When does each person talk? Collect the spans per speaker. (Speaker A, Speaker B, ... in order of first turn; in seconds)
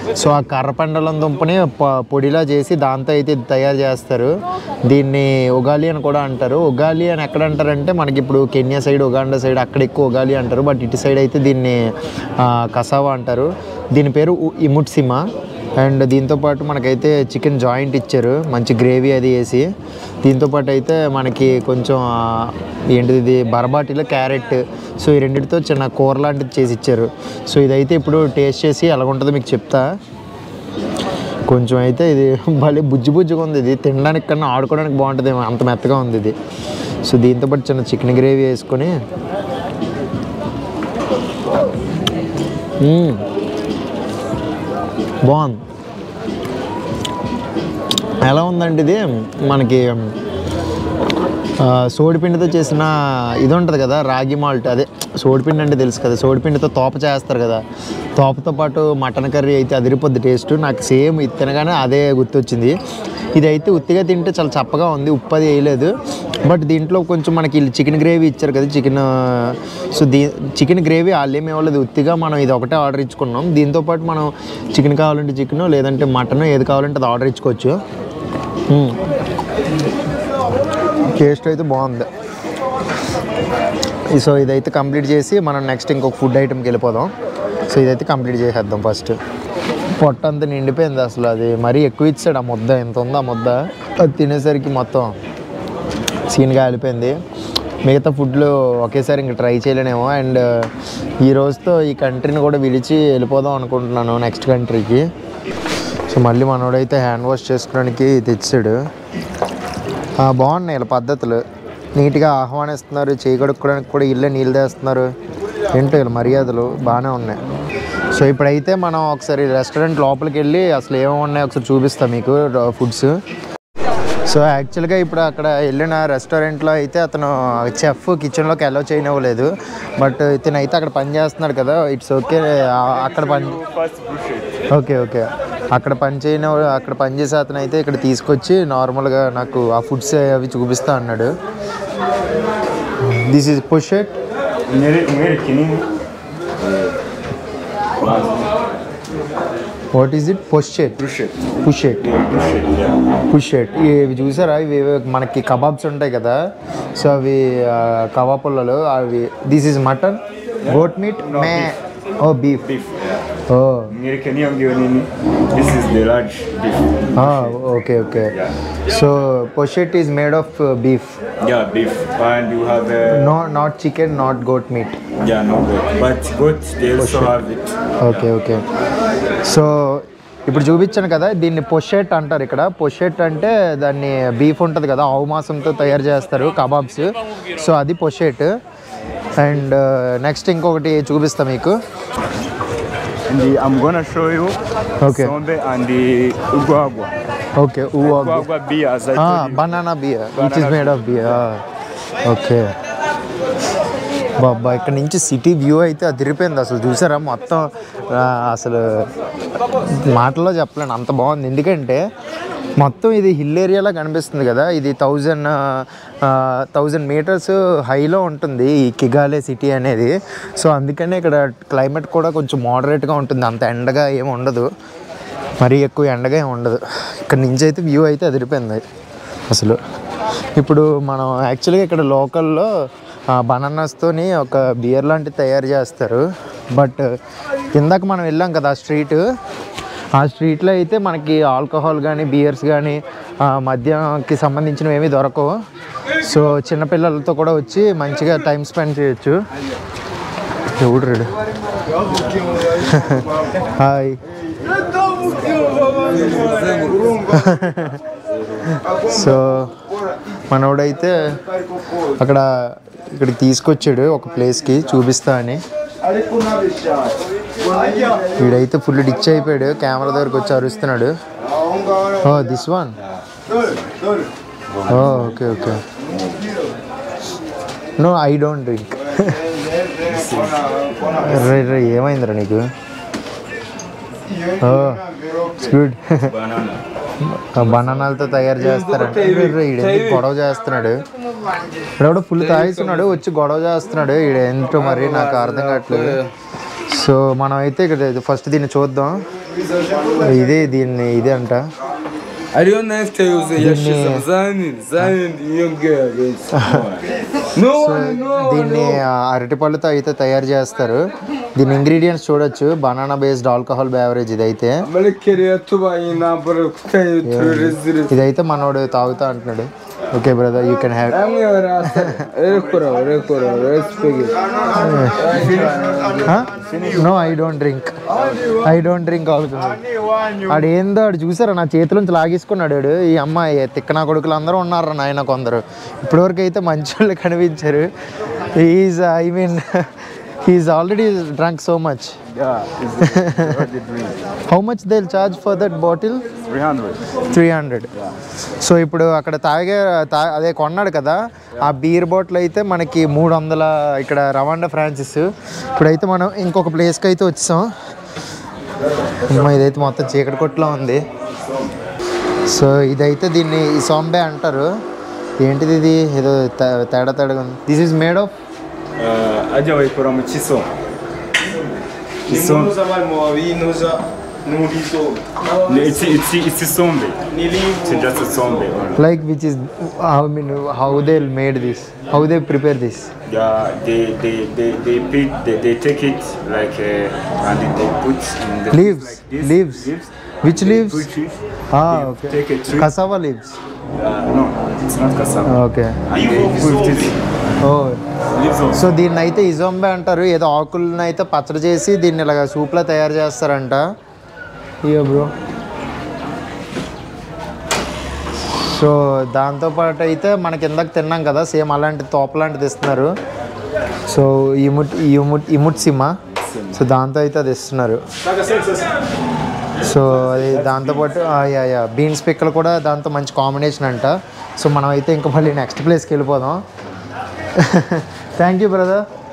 Speaker A: 0.2-4.3, 4.9-15.3, 15.8-19.7, 20.2-29.9, 31.5-36.4, 37.0-39.0, 42.8-43.2, 45.2-45.6, 48.2-50.1, 51.6-57.6, 58.2-62.8, 63.4-65.9, 66.5-77.8, 78.7-79.0, 81.1-82.1, 84.1-87.1, 87.7-89.2, 90.0-95.2, 96.3-97.2, 97.8-100.7, 101.2-105.1, 106.1-108.8, 110.2-111.4, 112.0-115.1, 115.7-117.4, 118.1-123.2, 124.3-133.6, 134.7-141.3, 143.1-144.2, 149.9-151.0, 151.6-152.0, 153.3-162.7, 163.5-163.9, 167.2-168.3, 168.9-171.2, 173.1-175.0, 177.0-177.4, 178.0-178.6, 179.5-188.6, 189.4-191.8, 195.0-195.3, 197.6-198.5, 199.2-201.6, 202.3-202.7, 204.4-209.1, 209.8-212.0, 212.8-224.7, 225.6-228.8, 229.5-229.8, 230.6-232.7, 233.3-237.1, 237.7-239.2, 240.2-245.5, 246.2-249.4, 250.8-251.3, 252.8-254.2, 257.3-258.0, 258.7-259.8, 260.5-261.4, 262.2-265.6, 268.4-271.1, 272.2-272.9, 274.9-275.8, 278.0-279.4, 281.1-282.7, 284.6-285.0, 285.5-286.3, 287.2-291.0, 292.0-296.2, 296.9-299.2, 300.2-301.7, 303.6-304.2, 306.6-306.8, 307.7-314.9, 317.2-321.2, 321.9-322.2, 324.7-325.5, 326.2-329.8, 330.5-337.9, 338.6-339.9, 340.4-342.2, 343.0-343.5, 344.5-346.3, 347.3-347.9, 348.6-357.7, 359.3-361.1, 362.5-364.7, 365.4-368.3, 372.3-372.7, 379.0-383.1, 388.7-389.9, 390.4-391.1, 391.7-393.6, 395.5-396.0, 396.7-397.1, 397.6-398.0, 398.7-403.9, 404.8-405.3, 408.6-413.1, 414.1-416.2, 416.7-418.0, 419.8-426.6, 427.6-429.1
Speaker B: 133.0-134.7, 144.7-145.9, 148.0-148.5, 151.0-151.4, 152.0-153.0, 160.6-161.7, 162.6-163.2, 163.9-167.6, 171.4-173.3, 175.2-177.9, 193.3-197.2, 198.0-201.5, 274.9-275.4, 280.0-281.4, 286.3-286.8, 287.6-288.4, 306.6-307.1, 326.5-327.3, 342.3-344.2, 346.4-347.1, 369.0-370.8, 372.3-372.8, 374.5-375.0, 375.5-379.1, 383.3-392.9, 393.9-397.2, 398.3-399.0, 416.4-416.8, 418.4-418.8, 420.7-421.1
Speaker C: 255.4-257.2, 288.6-290.2, 292.4-293.2, 294.8-296.3, 302.5-306.5, 307.6-309.0, 314.8-318.1, 321.1-326.3